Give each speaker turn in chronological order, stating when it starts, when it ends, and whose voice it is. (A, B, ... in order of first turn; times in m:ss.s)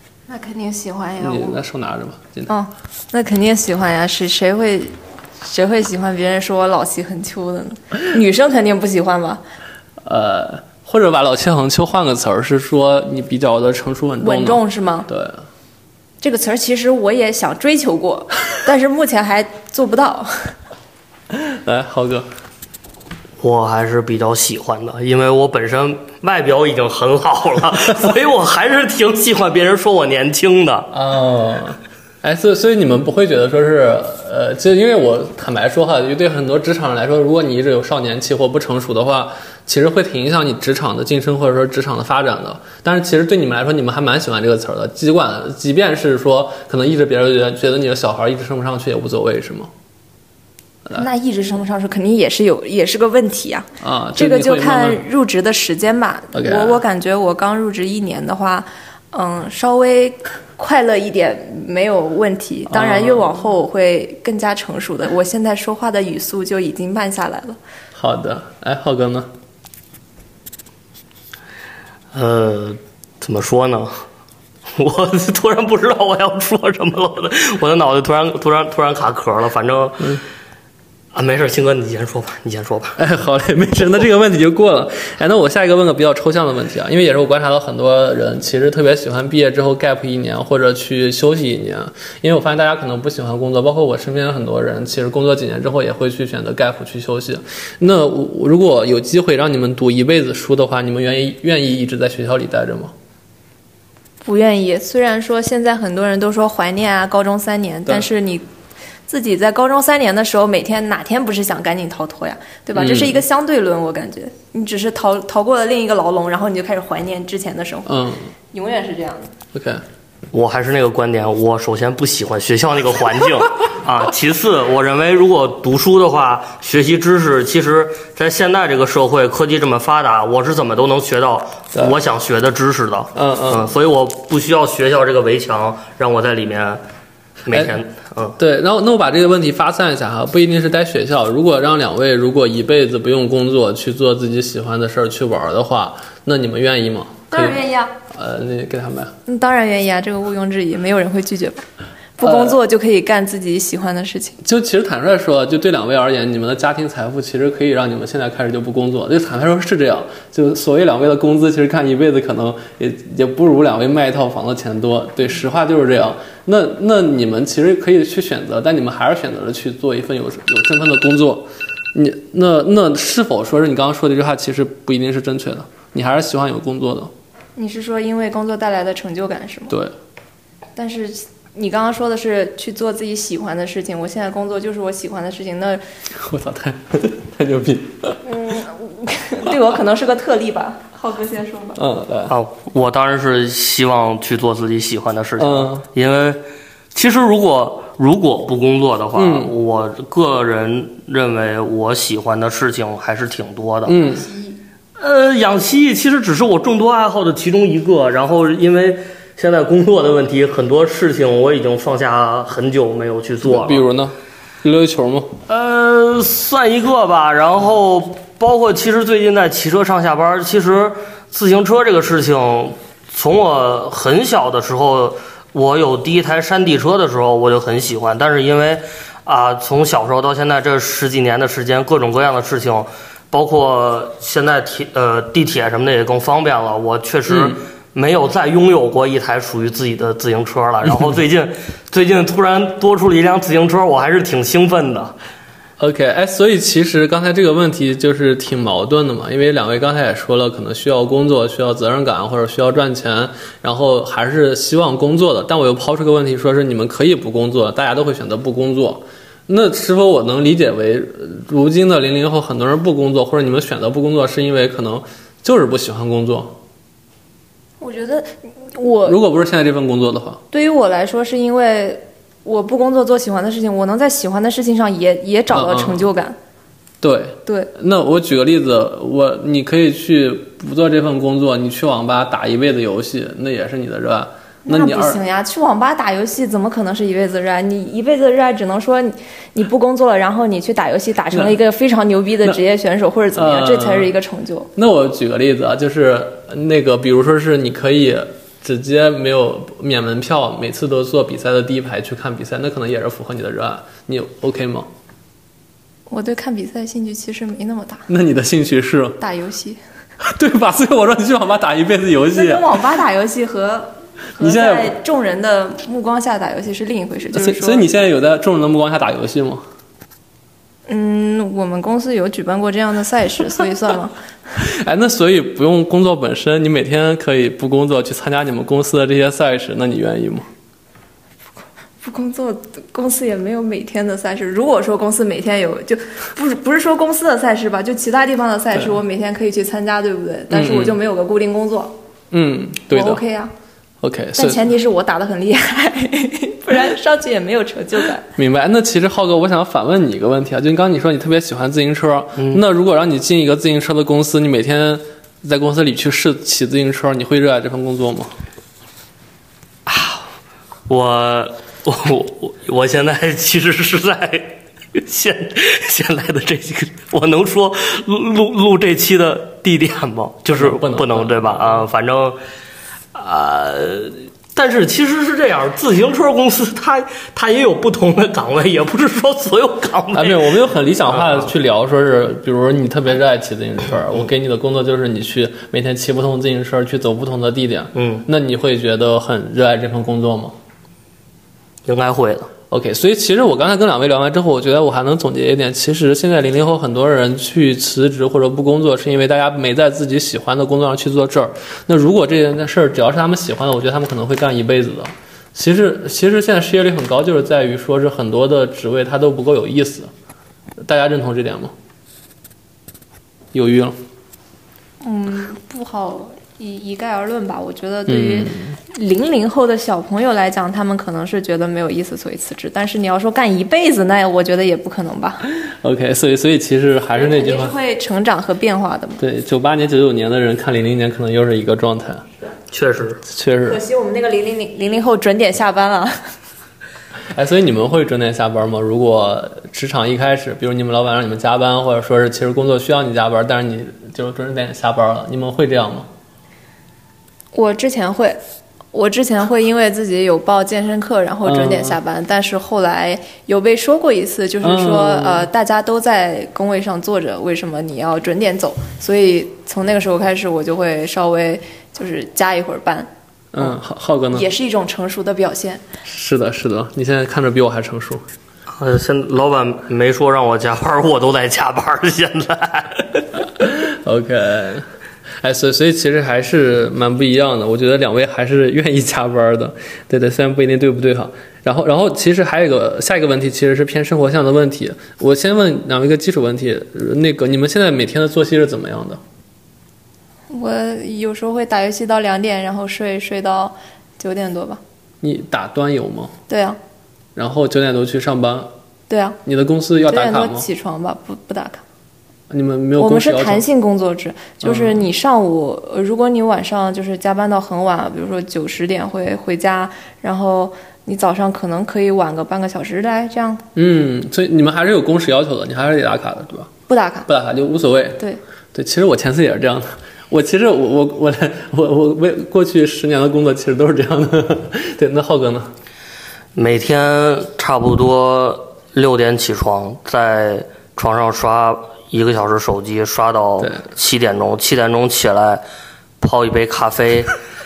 0:00.3-0:01.6 A
0:01.2-0:02.5 B
0:02.5-0:09.4 A
0:10.0-0:15.4 B
0:14.2-0:15.1 A
0:16.2-0:20.6 A
0:21.3-0:22.3 B
0:23.4-0:30.9 C
0:30.9-0:49.7 B
0:50.9-1:07.6 A
0:53.8-0:55.0 B
0:56.3-0:56.8 B
1:02.7-1:03.3 B
1:08.0-1:09.3 B
1:12.1-1:14.0 C
1:14.7-1:20.2 C
1:21.1-1:23.0 C
1:23.0-1:42.9 B
1:44.2-1:48.4 A
1:49.1-1:58.0 A
1:52.8-1:53.2 B
1:57.9-1:58.3 B
1:58.5-1:59.3 A
1:59.5-1:59.8 B
2:00.3-2:16.8 C
2:13.2-2:13.7 B
2:17.4-2:18.4 C
2:18.4-2:27.6 B
2:27.3-2:27.9 A
2:28.1-2:29.1 B
2:29.3-2:31.7 A
2:32.2-2:34.4 A
2:32.2-2:32.6 B
2:34.4-2:57.1 B
2:57.6-2:59.8 A
3:00.8-3:05.8 A
3:06.2-3:08.2 B
3:08.2-3:11.8 A
3:11.8-3:12.4 B
3:12.3-3:16.4 C
3:15.4-3:15.8 B
3:16.9-3:24.0 C
3:19.2-3:19.5 B
3:23.9-3:24.3 B
3:24.0-3:24.6 A
3:25.0-3:33.8 C
3:33.4-3:35.4 B
3:35.5-4:05.2 C
3:57.3-3:57.6 B
4:05.8-4:26.6 B
4:27.8-4:29.2 A
4:29.0-4:30.4 B
4:30.5-4:36.4 A
4:35.5-4:36.1 B
4:37.0-4:45.2 B
4:44.7-4:54.7 A
4:53.3-4:54.1 B
4:54.8-5:04.9 B
5:06.1-5:08.1 A
5:08.1-5:09.2 B
5:09.2-5:09.8 A
5:10.2-5:12.6 B
5:12.3-5:17.8 A
5:14.4-5:14.9 B
5:17.3-5:19.6 B
5:20.9-5:24.2 A
5:24.6-5:30.5 B
5:32.0-5:42.0 A
5:40.5-5:41.0 B
5:42.3-5:43.2 B
5:42.9-5:43.5 A
5:44.0-5:44.6 B
5:44.4-5:48.2 A
5:48.4-5:58.3 B
5:59.9-6:00.2 C
6:00.9-6:12.4 C
6:10.5-6:11.8 B
6:13.1-6:20.6 C
6:20.1-6:30.6 B
6:21.1-6:21.5 C
6:28.0-6:28.3 C
6:31.9-6:32.5 C
6:32.7-6:50.1 B
6:50.8-6:51.7 B
6:53.5-6:54.0 B
6:55.0-7:05.4 A
6:58.1-6:58.8 B
7:05.5-7:07.8 B
7:07.1-7:09.2 A
7:09.2-7:12.3 B
7:12.7-7:13.2 C
7:13.2-7:13.8 B
7:13.7-7:16.2 A
7:17.3-7:26.1 B
7:27.5-7:28.4 A
7:28.9-7:43.7 A
7:31.4-7:32.0 B
7:34.6-7:35.5 B
7:43.5-7:44.5 B
7:44.3-7:45.8 A
7:46.0-7:48.2 B
7:48.7-7:53.3 C
7:53.6-7:54.8 B
7:55.4-8:09.2 B
8:10.5-8:14.8 A
8:15.2-8:16.3 B
8:16.5-8:16.8 A
8:17.4-8:18.7 B
8:19.1-8:19.4 A
8:19.4-8:20.7 B
8:20.1-8:21.8 A
8:22.5-8:23.6 B
8:23.0-8:33.6 A
8:24.6-8:25.0 B
8:33.8-8:36.7 B
8:36.9-8:37.3 A
8:37.3-8:38.2 B
8:38.7-8:45.7 B
8:46.6-8:55.6 C
8:56.2-8:57.3 C